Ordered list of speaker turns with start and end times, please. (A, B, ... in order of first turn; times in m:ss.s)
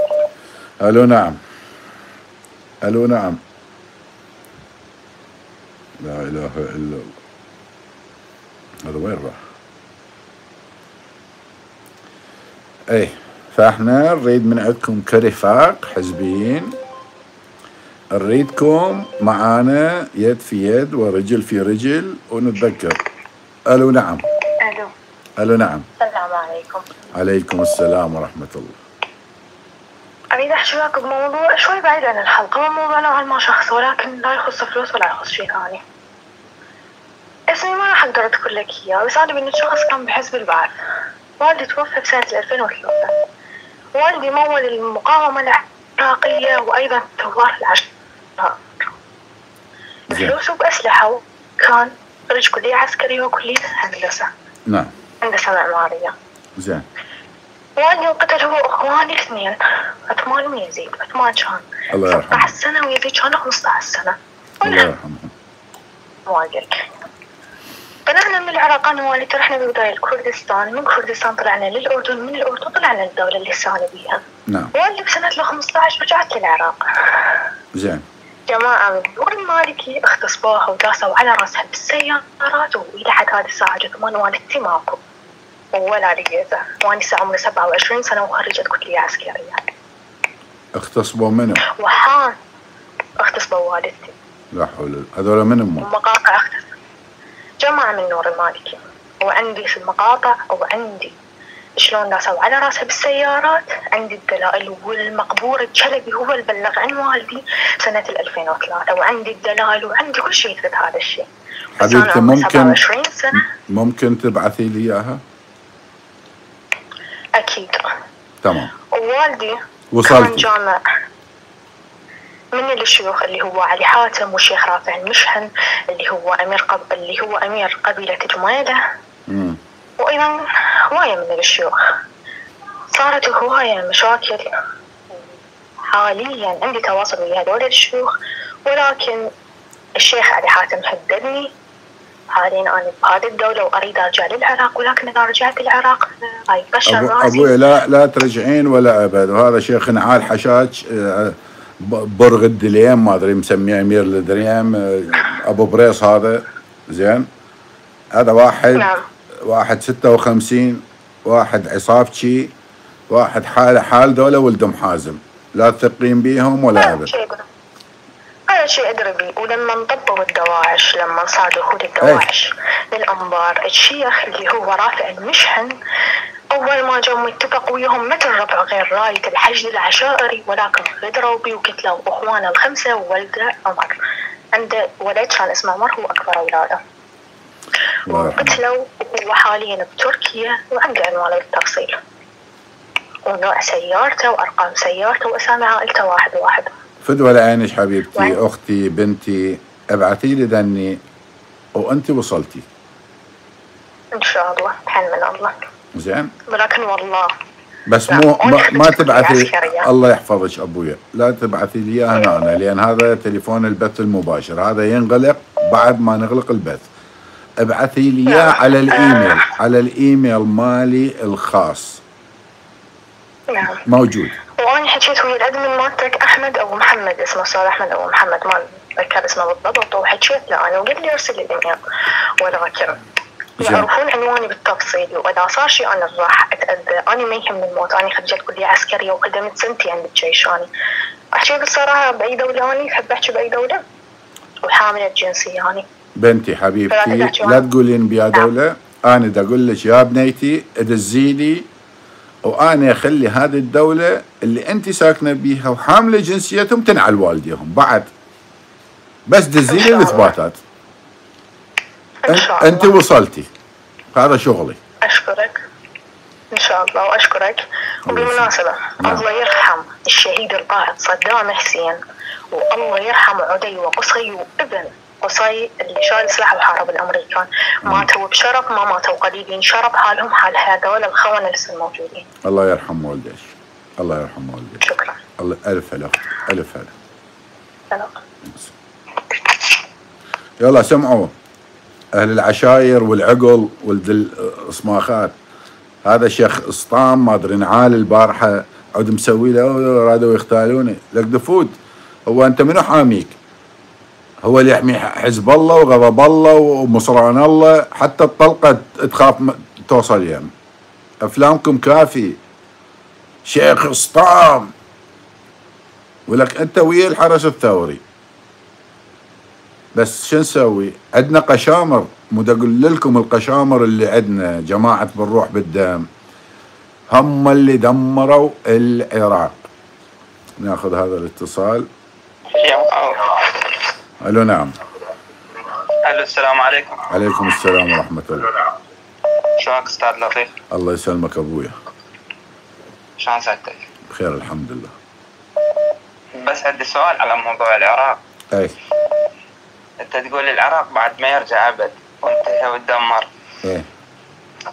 0:00.8-0:01.4 A
0:02.8-0:03.4 A
0:06.0-0:07.1 A
0:08.8-0:09.4 A
0:12.9-0:16.7 A
0:18.1-0:23.0 A
0:23.7-0:24.2 A
0:24.6-0:24.9 B
0:25.4-0:25.8 A
0:26.0-0:26.8 B
0:27.2-0:28.8 A
0:30.3-0:35.8 B
0:37.5-0:40.7 B
0:41.4-0:43.1 B
0:44.0-0:47.9 B
0:50.1-0:54.3 B
0:55.2-0:56.1 B
0:56.6-0:56.8 A
0:57.8-1:04.9 B
1:01.9-1:02.5 A
1:04.6-1:05.3 A
1:06.3-1:06.8 B
1:08.1-1:14.2 B
1:14.5-1:14.7 A
1:14.7-1:17.4 B
1:17.7-1:18.0 A
1:18.5-1:25.0 B
1:25.7-1:29.6 B
1:30.7-1:31.6 A
1:31.7-1:32.3 B
1:33.2-1:34.1 B
1:34.5-1:35.9 A
1:35.8-1:36.7 B
1:37.6-1:41.2 B
1:41.8-1:51.3 B
1:51.8-1:52.8 A
1:51.8-1:53.4 B
1:53.3-1:55.2 A
1:57.4-1:57.9 B
1:58.4-1:58.7 A
1:58.9-2:00.8 B
1:59.9-2:00.5 A
2:02.5-2:08.8 B
2:09.3-2:09.6 A
2:10.0-2:11.8 B
2:12.9-2:14.5 B
2:15.9-2:18.1 B
2:18.6-2:19.3 B
2:20.0-2:21.5 B
2:22.3-2:27.5 B
2:26.9-2:37.3 A
2:38.1-2:38.9 A
2:38.7-2:39.0 B
2:39.4-2:42.5 A
2:43.1-2:47.1 A
2:46.8-2:47.4 B
2:48.5-2:55.7 B
2:56.5-3:04.0 B
3:04.5-3:06.8 B
3:08.1-3:08.6 A
3:08.1-3:12.0 B
3:13.3-3:16.7 B
3:17.0-3:21.0 A
3:21.7-3:22.6 A
3:24.1-3:25.5 B
3:25.9-3:26.3 A
3:26.5-3:27.3 B
3:27.9-3:36.9 A
3:28.1-3:29.9 B
3:37.6-3:42.0 A
3:38.3-3:39.4 B
3:43.5-3:43.8 B
3:43.7-3:44.4 A
3:44.6-3:51.8 B
3:52.4-3:53.0 B
3:53.6-3:53.9 A
3:53.6-4:00.7 B
4:01.3-4:03.8 B
4:04.6-4:05.8 B
4:06.2-4:11.6 A
4:06.9-4:07.6 B
4:12.4-4:18.1 A
4:19.3-4:20.6 A
4:19.7-4:20.3 B
4:22.2-4:22.9 B
4:22.3-4:23.5 A
4:24.1-4:24.8 A
4:25.0-4:25.6 B
4:26.5-4:42.2 B
4:28.1-4:29.2 A
4:42.4-4:44.8 A
4:44.8-4:45.2 B
4:45.4-4:46.9 A
4:47.9-4:48.2 B
4:50.6-4:51.3 A
4:52.1-4:55.3 A
4:56.0-5:01.7 A
5:02.3-5:03.4 A
5:04.4-5:10.5 A
5:11.2-5:12.4 A
5:13.4-5:14.7 A
5:16.3-5:18.0 A
5:19.9-5:26.1 A
5:27.1-5:29.6 A
5:30.6-5:31.9 A
5:32.5-5:33.8 C
5:34.2-5:34.7 A
5:35.9-5:37.1 C
5:37.1-5:38.5 A
5:39.6-5:40.5 C
5:40.7-5:41.7 A
5:43.2-5:43.8 C
5:44.1-5:44.9 A
5:46.4-5:48.2 C
5:50.0-5:53.3 C